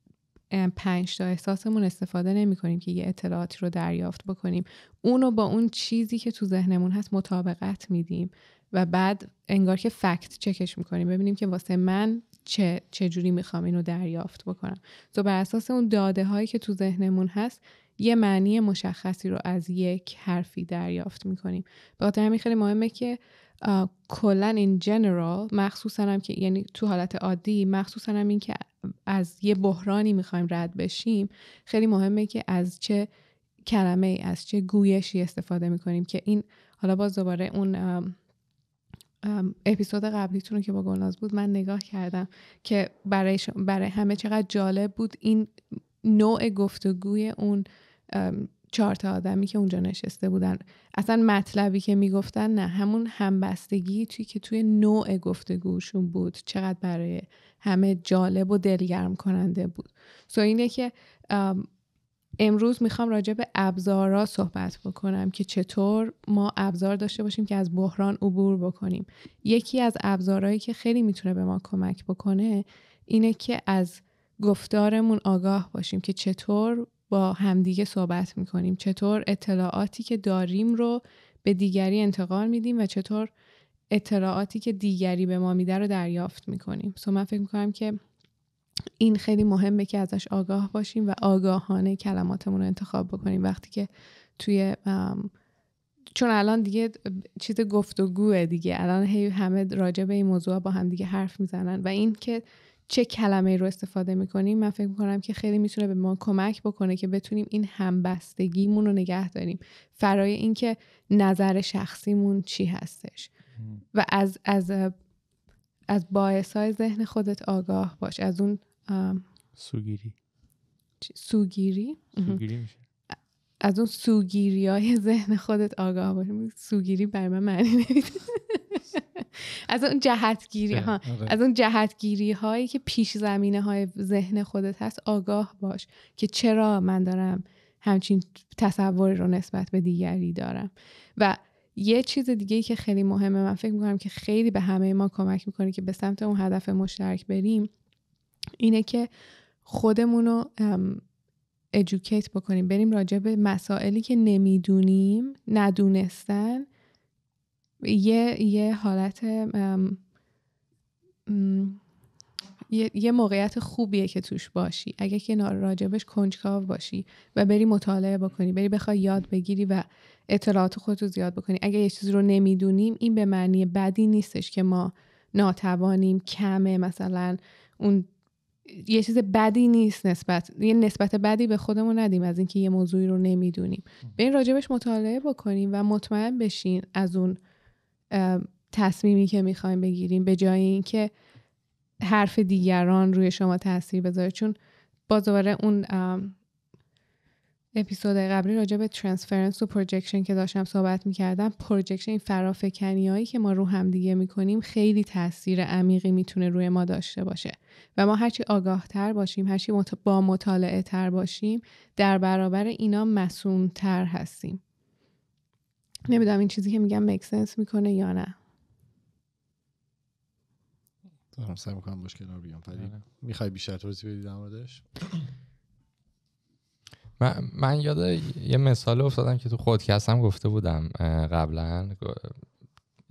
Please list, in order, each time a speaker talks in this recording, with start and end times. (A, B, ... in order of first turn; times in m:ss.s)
0:00.5-0:33.1 A
0:33.7-0:38.2 A
0:39.2-1:01.7 A
1:02.4-1:23.3 A
1:23.9-1:28.0 A
1:29.0-1:35.3 A
1:36.2-1:53.3 A
1:53.6-1:53.8 B
1:53.9-1:54.9 A
1:55.9-1:59.2 A
1:59.6-2:00.1 B
2:01.0-2:02.4 A
2:02.2-2:02.8 B
2:03.6-2:27.7 A
2:10.7-2:11.0 B
2:11.0-2:11.4 C
2:28.6-2:29.1 A
2:29.6-2:31.0 A
2:31.7-2:36.7 A
2:37.8-2:40.0 A
2:41.3-2:41.8 A
2:42.7-2:58.1 A
2:58.7-3:07.4 A
3:08.1-3:11.1 A
3:12.0-3:14.6 A
3:15.1-3:16.4 A
3:17.8-3:34.6 A
3:36.1-3:38.4 A
3:41.3-3:45.2 C
3:42.8-3:43.0 B
3:47.2-3:52.3 D